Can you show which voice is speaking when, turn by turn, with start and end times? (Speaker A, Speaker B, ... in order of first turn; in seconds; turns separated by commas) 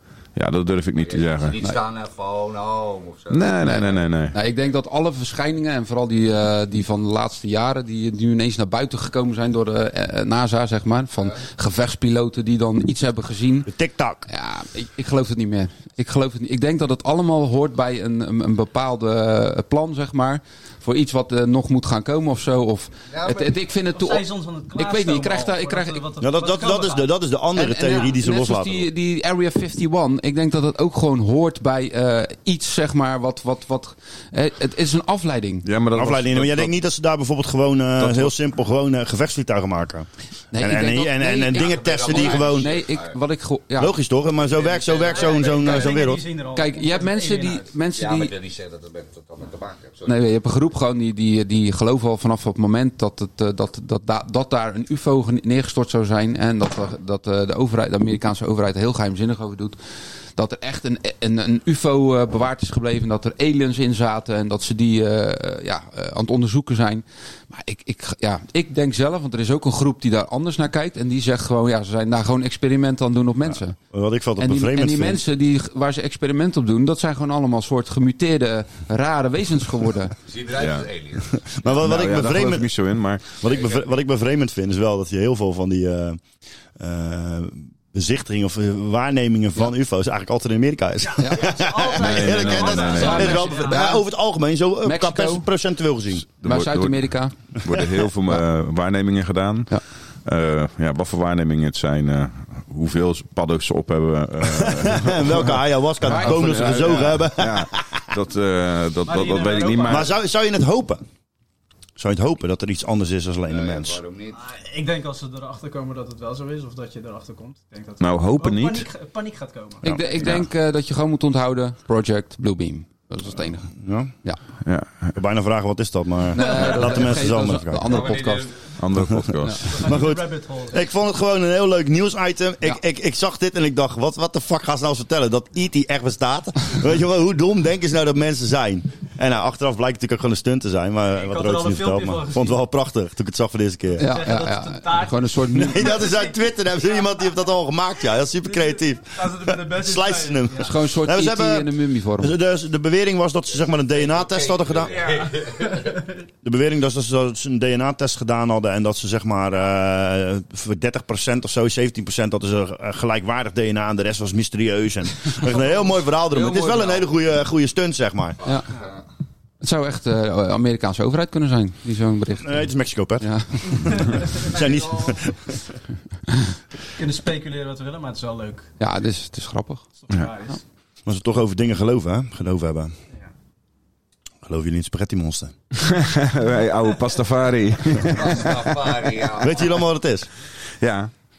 Speaker A: 0.3-1.6, Speaker B: 1.0-3.7, Speaker A: 3.3-4.4, Speaker C: 3.6-13.7, Speaker D: 13.7-14.2, Speaker C: 14.3-26.0, Speaker B: 23.1-23.5, Speaker E: 23.9-27.1, Speaker D: 26.2-28.9, Speaker C: 27.6-35.7, Speaker A: 35.6-36.7, Speaker D: 35.9-42.7, Speaker A: 38.0-38.3, Speaker C: 40.5-43.9, Speaker B: 41.5-43.2, Speaker D: 43.8-46.2, Speaker B: 44.5-45.9, Speaker E: 45.0-47.6, Speaker C: 46.5-48.3, Speaker B: 47.9-50.1, Speaker C: 50.0-59.8, Speaker C: 60.4-73.8, Speaker D: 73.9-75.2, Speaker C: 74.4-80.2, Speaker B: 80.2-81.7, Speaker A: 80.5-80.9, Speaker D: 81.3-82.7, Speaker A: 81.8-83.2, Speaker D: 83.3-86.2, Speaker B: 83.4-83.8, Speaker D: 86.8-96.2, Speaker E: 91.0-93.8, Speaker C: 91.2-91.5, Speaker A: 92.0-93.5, Speaker C: 92.8-94.0, Speaker C: 94.8-95.5, Speaker A: 96.4-99.7, Speaker C: 96.4-97.3, Speaker A: 100.2-110.1, Speaker D: 104.5-108.0, Speaker C: 106.0-107.2, Speaker E: 109.0-110.1, Speaker D: 109.9-111.0, Speaker D: 112.0-114.0, Speaker B: 113.5-114.4, Speaker E: 114.3-119.9, Speaker A: 118.0-118.9, Speaker C: 119.8-123.7, Speaker D: 123.7-124.1, Speaker A: 124.6-125.1, Speaker D: 125.1-128.1, Speaker C: 126.3-128.4, Speaker E: 126.4-126.9, Speaker B: 127.8-128.7, Speaker A: 128.8-129.7, Speaker D: 129.0-144.1, Speaker C: 129.4-129.7, Speaker E: 129.6-130.8, Speaker E: 141.1-142.6, Speaker C: 144.0-146.1, Speaker E: 144.0-147.0, Speaker D: 145.5-155.0, Speaker E: 149.1-150.7, Speaker C: 150.6-152.3, Speaker B: 153.5-156.0, Speaker E: 155.0-155.9, Speaker D: 156.4-168.4, Speaker C: 166.1-167.1, Speaker B: 168.4-169.0, Speaker C: 169.6-172.7, Speaker D: 172.4-175.6, Speaker C: 173.2-174.2, Speaker E: 173.7-175.3, Speaker E: 177.0-178.7, Speaker C: 178.8-179.8, Speaker E: 180.0-180.6, Speaker D: 181.1-182.9, Speaker D: 184.4-185.5, Speaker A: 185.7-188.8, Speaker B: 188.0-189.8, Speaker D: 189.4-190.3, Speaker A: 190.7-191.1